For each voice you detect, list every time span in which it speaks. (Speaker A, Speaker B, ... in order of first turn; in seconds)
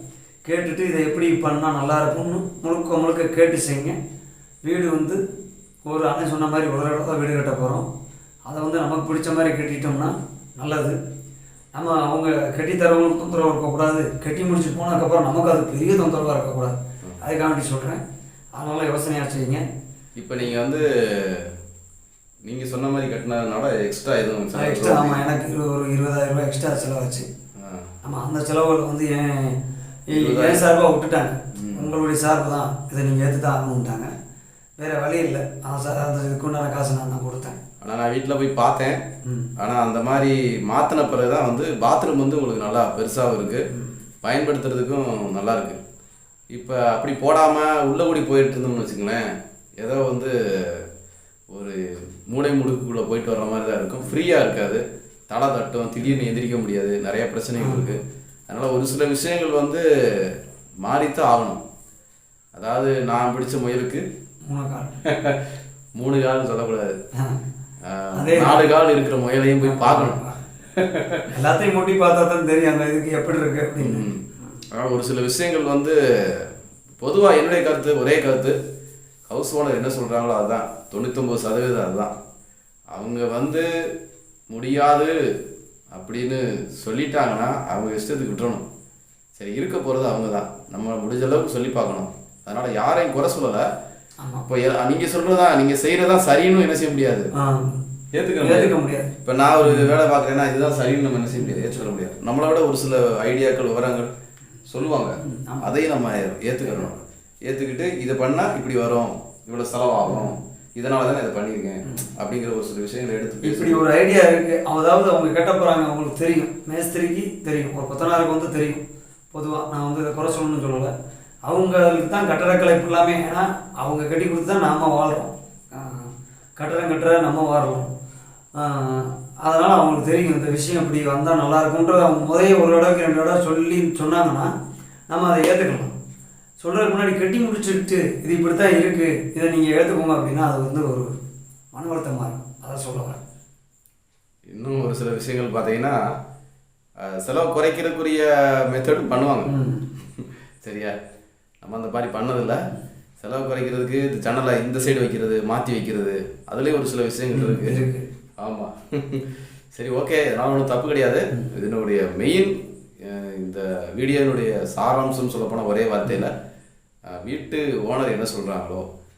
Speaker A: 0.4-3.9, 4.6-5.2, 5.8-7.8, 8.5-10.9, 11.7-18.0, 18.6-19.6, 24.5-27.3, 28.0-29.6, 30.1-34.1, 34.8-37.6, 39.2-39.5, 57.6-57.9, 64.5-65.0, 68.2-68.6, 69.6-70.4, 71.3-74.0, 97.3-97.8, 98.4-99.1, 99.6-99.9, 101.3-101.9, 105.2-105.8, 110.0-110.3, 113.4-118.8, 119.3-120.9, 121.5-127.9, 128.5-134.5, 135.1-135.9, 136.6-141.1, 141.7-143.2, 149.5-149.9, 157.3-158.1
Speaker B: 20.2-21.5, 22.4-25.2, 27.6-27.9, 30.1-30.7, 31.5-31.9, 37.8-39.0, 39.6-43.6, 44.2-45.8, 46.5-49.2, 49.8-50.8, 51.5-60.3, 60.8-61.6, 62.5-64.0, 65.0-65.4, 66.0-66.9, 67.8-71.3, 73.8-76.5, 77.0-78.5, 79.3-82.1, 82.9-83.7, 84.5-85.1, 85.9-88.6, 89.4-93.6, 94.5-97.3, 98.1-98.7, 99.2-104.1, 104.7-113.8, 144.5-146.0, 147.0-149.5, 150.2-150.9, 151.6-152.6, 153.2-157.8, 158.4-166.3, 167.1-168.8